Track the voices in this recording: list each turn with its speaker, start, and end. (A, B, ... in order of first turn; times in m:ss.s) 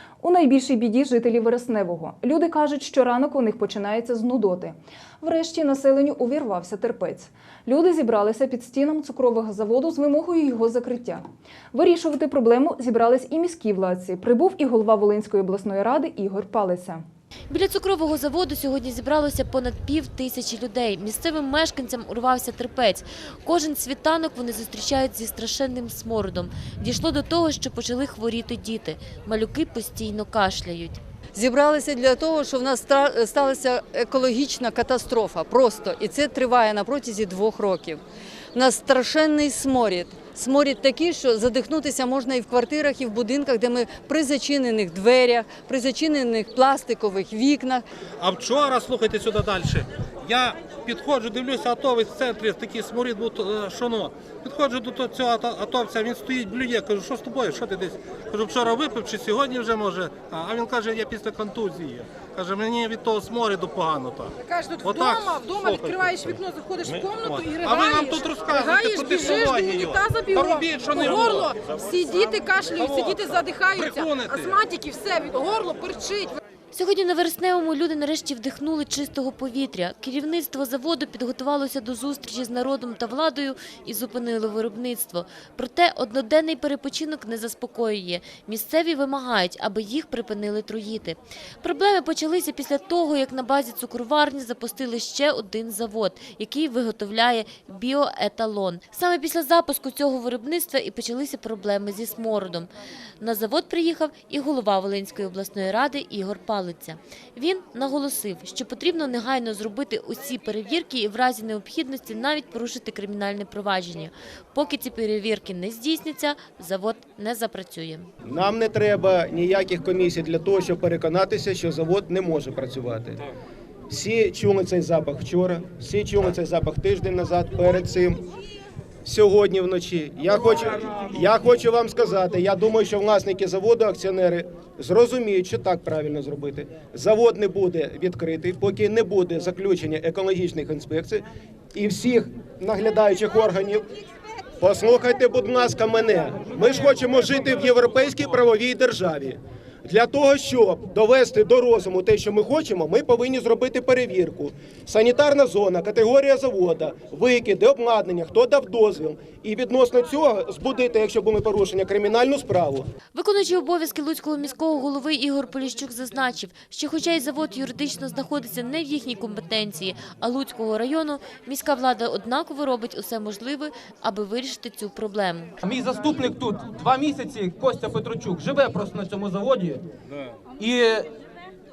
0:00.2-0:17.0 A
0:17.5-0:31.0 B
0:31.3-0:38.0 C
0:38.5-0:47.8 C
0:48.2-1:06.4 D
1:04.4-1:16.3 E
1:07.0-1:14.6 D
1:16.7-1:42.7 B
1:43.2-1:58.1 B
1:58.2-2:03.2 F
2:03.9-2:08.2 F
2:09.0-2:23.8 F
2:24.6-2:42.9 F
2:43.1-2:55.6 B
2:55.6-2:59.8 G
3:00.6-3:01.1 G